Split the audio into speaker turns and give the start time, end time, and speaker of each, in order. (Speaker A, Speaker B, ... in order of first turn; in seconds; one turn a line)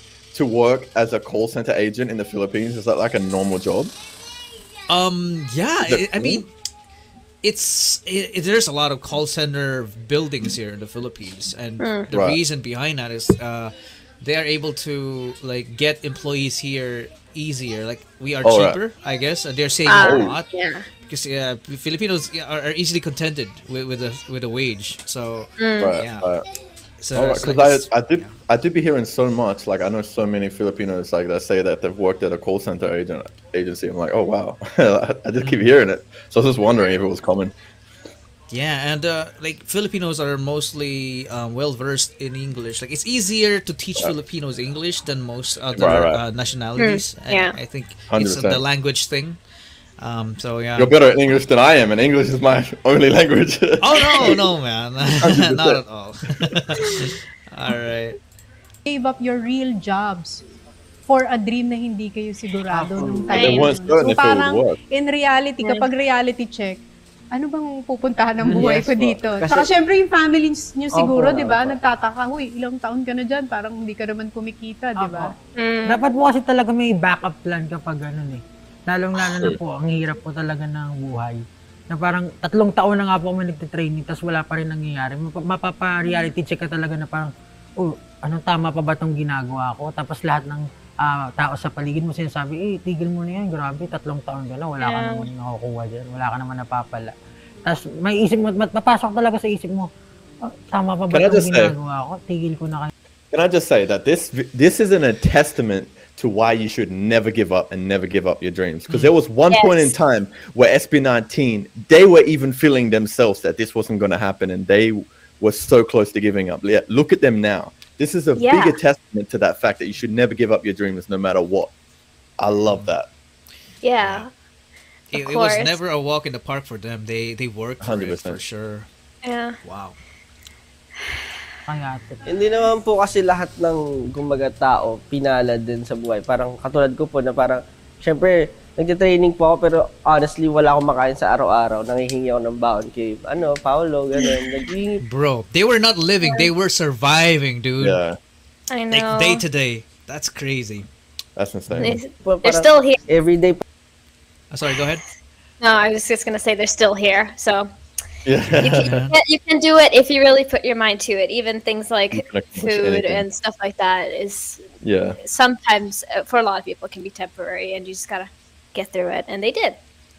Speaker A: 0.3-3.9
Speaker B: 4.9-6.5
Speaker A: 5.9-6.4
Speaker B: 7.4-20.5
Speaker C: 11.8-12.1
Speaker A: 12.1-12.4
Speaker A: 18.4-18.8
Speaker C: 19.9-20.9
Speaker A: 20.0-20.4
Speaker B: 21.0-26.2
Speaker C: 25.6-25.9
Speaker A: 25.8-26.4
Speaker B: 27.0-28.4
Speaker A: 27.1-37.5
Speaker B: 35.4-35.6
Speaker B: 38.5-49.4
Speaker A: 45.8-46.2
Speaker C: 46.8-47.5
Speaker A: 48.1-48.6
Speaker B: 50.0-50.9
Speaker A: 50.8-54.4
Speaker B: 53.8-58.2
Speaker A: 55.2-55.8
Speaker A: 56.4-57.1
Speaker D: 58.9-60.4
Speaker D: 61.1-66.8
Speaker E: 62.7-63.1
Speaker C: 63.3-63.7
Speaker A: 63.3-64.8
Speaker D: 67.3-75.3
Speaker E: 68.4-68.8
Speaker F: 68.4-69.7
Speaker F: 70.9-71.8
Speaker E: 75.0-75.3
Speaker C: 75.5-76.0
Speaker E: 75.9-97.1
Speaker A: 79.3-79.6
Speaker C: 94.8-95.3
Speaker E: 97.7-99.9
Speaker E: 100.4-102.9
Speaker A: 101.1-101.7
Speaker A: 103.3-121.7
Speaker C: 109.5-109.9
Speaker C: 118.3-118.8
Speaker A: 122.4-123.1
Speaker B: 122.6-122.9
Speaker C: 123.8-124.3
Speaker B: 124.0-124.2
Speaker B: 125.1-128.9
Speaker C: 125.1-125.8
Speaker A: 127.8-128.4
Speaker C: 129.2-129.6
Speaker B: 129.6-129.9
Speaker E: 131.7-132.4
Speaker F: 132.2-145.0
Speaker B: 145.0-148.0
Speaker C: 146.2-146.5
Speaker A: 147.8-148.2
Speaker C: 148.7-149.4
Speaker B: 148.9-150.9
Speaker A: 151.4-152.0
Speaker C: 151.8-153.0
Speaker F: 152.2-153.6
Speaker B: 154.5-155.0
Speaker C: 155.6-157.7
Speaker A: 158.2-158.9
Speaker C: 158.6-164.6
Speaker B: 158.8-159.1
Speaker A: 162.1-163.2
Speaker A: 164.8-165.2
Speaker C: 165.2-169.8